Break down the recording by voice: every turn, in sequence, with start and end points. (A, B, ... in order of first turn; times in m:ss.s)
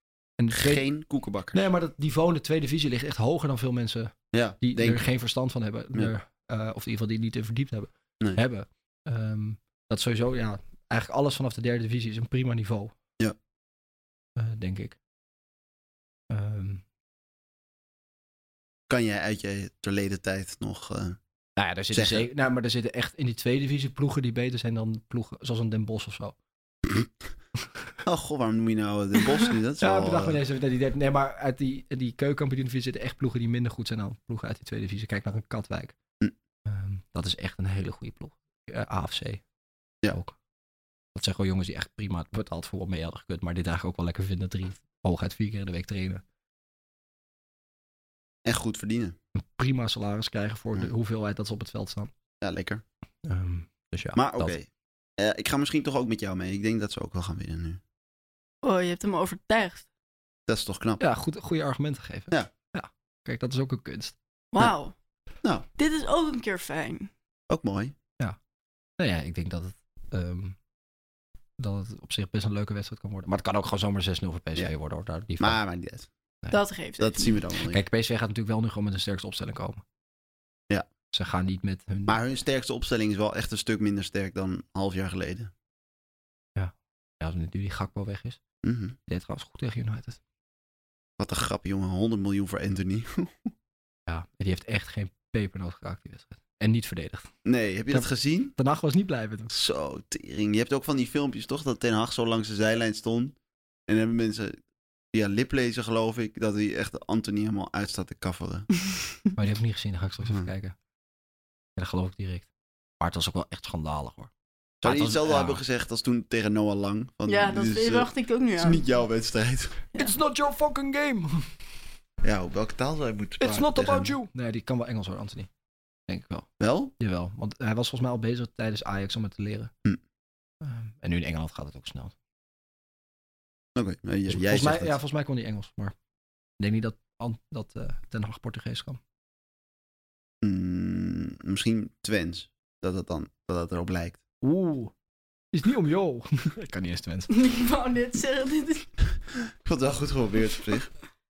0:00.4-0:00.8 A
0:00.5-0:01.7 B
0:01.5-0:12.9 A
0:04.3-0:05.0 B
0:14.4-0:15.0 A
0:16.3-0:16.8 A
0:18.9-0:21.2 B
0:21.6-0:26.4 A
0:21.9-0:22.3 B
0:28.0-0:30.4 B
0:29.8-0:36.0 A
0:36.7-0:39.4 A
0:40.1-0:40.4 A
0:41.2-0:46.2 A
0:48.4-0:49.2 B
0:49.4-0:52.1 A
0:52.4-0:52.8 B
0:53.2-0:54.6 A
0:54.2-0:57.8 B
0:58.6-0:59.9 C
1:00.5-1:01.0 B
1:01.0-1:04.2 A
1:04.5-1:04.9 C
1:05.8-1:07.1 C
1:07.5-1:08.0 B
1:09.0-1:10.6 A
1:11.6-1:15.6 A
1:15.4-1:16.1 B
1:16.5-1:17.4 C
1:17.0-1:17.8 B
1:17.7-1:19.8 A
1:21.1-1:22.2 A
1:22.1-1:25.5 B
1:26.6-1:28.4 A
1:28.6-1:29.0 B
1:29.1-1:30.2 A
1:31.2-1:33.5 B
1:34.1-1:37.3 A
1:37.4-1:38.6 B
1:37.9-1:39.5 A
1:39.5-1:43.4 B
1:43.9-1:44.6 B
1:45.1-1:48.7 B
1:49.4-1:50.8 A
1:51.8-1:52.5 A
1:53.0-1:54.3 A
1:54.8-1:59.9 B
1:54.8-1:55.6 A
1:57.3-1:58.8 C
2:00.0-2:01.5 A
2:02.2-2:04.2 B
2:03.4-2:05.5 A
2:06.1-2:09.7 A
2:06.6-2:06.9 B
2:10.6-2:12.1 A
2:13.8-2:15.0 B
2:14.3-2:16.0 A
2:16.6-2:19.0 A
2:20.4-2:24.2 B
2:24.4-2:24.9 A
2:25.5-2:27.3 A
2:27.3-2:28.9 C
2:29.6-2:30.9 B